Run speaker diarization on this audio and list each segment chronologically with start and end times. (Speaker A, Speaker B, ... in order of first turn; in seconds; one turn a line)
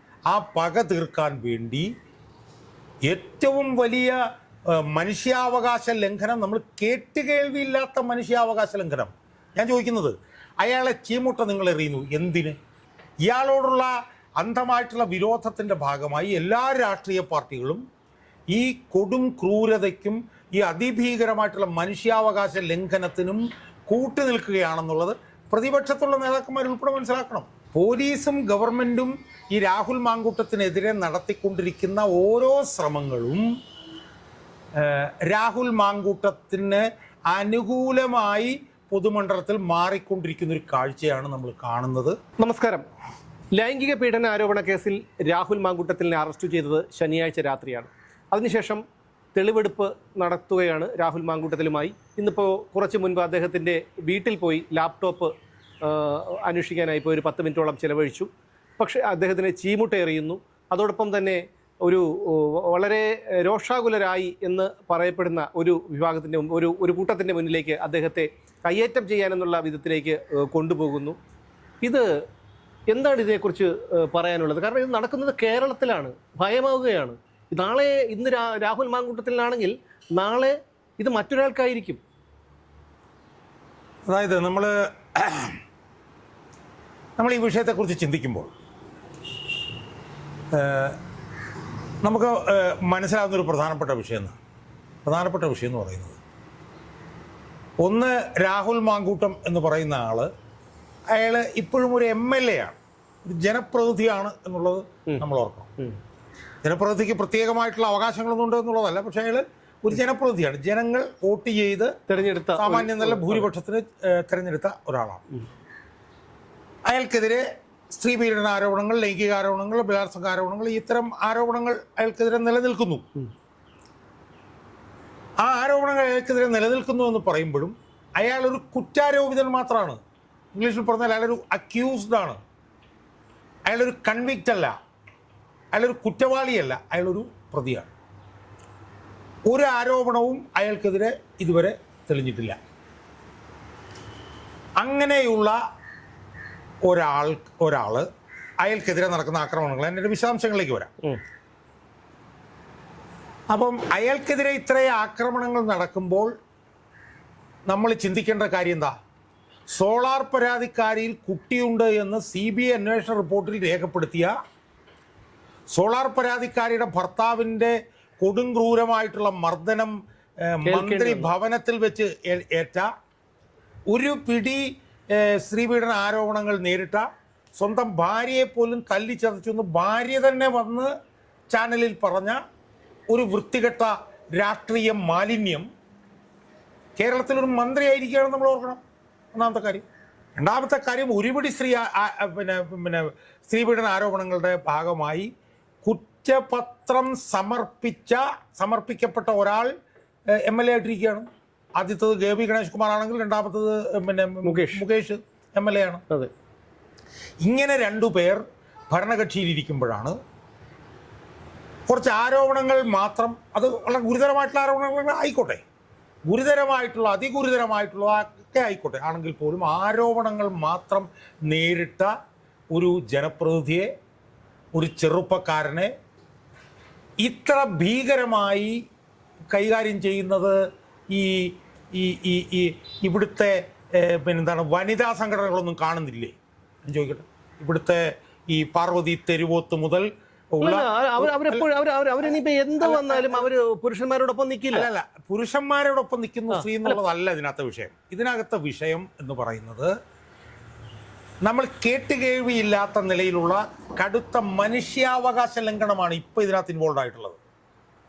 Speaker A: 0.3-1.9
Speaker A: 3.1-4.2
Speaker A: 4.7-12.6
Speaker A: 13.3-17.8
Speaker A: 18.5-33.5
Speaker A: 34.8-42.2
Speaker B: 42.4-42.9
Speaker B: 43.5-48.8
Speaker B: 49.4-71.2
Speaker B: 72.9-82.0
Speaker A: 84.1-85.6
Speaker A: 87.2-88.5
Speaker A: 90.5-91.0
Speaker A: 92.0-94.4
Speaker A: 95.0-96.2
Speaker A: 97.8-100.3
Speaker A: 101.1-105.7
Speaker A: 106.6-111.9
Speaker B: 112.1-113.5
Speaker A: 112.6-115.2
Speaker A: 116.9-123.1
Speaker A: 125.4-130.0
Speaker A: 130.6-132.4
Speaker A: 133.7-134.7
Speaker A: 135.7-137.9
Speaker A: 139.5-142.6
Speaker A: 144.8-145.6
Speaker A: 146.9-148.1
Speaker A: 148.6-150.9
Speaker A: 153.5-156.3
Speaker A: 157.7-158.9
Speaker A: 159.7-164.3
Speaker A: 165.7-172.9
Speaker B: 170.7-171.3
Speaker A: 173.9-177.1
Speaker A: 177.6-180.9
Speaker A: 181.5-182.4
Speaker A: 183.1-185.7
Speaker A: 187.0-188.8
Speaker A: 189.3-189.8
Speaker A: 190.4-195.3
Speaker A: 195.8-199.7
Speaker A: 200.3-206.0
Speaker B: 204.4-204.8
Speaker A: 207.4-210.2
Speaker A: 211.9-215.6
Speaker A: 216.3-222.2
Speaker A: 222.7-223.9
Speaker A: 224.8-225.9
Speaker A: 227.2-228.8
Speaker A: 229.5-230.6
Speaker A: 231.1-241.7
Speaker B: 240.6-244.9
Speaker A: 242.8-243.5
Speaker A: 244.7-249.9
Speaker B: 246.5-247.0
Speaker A: 251.4-257.4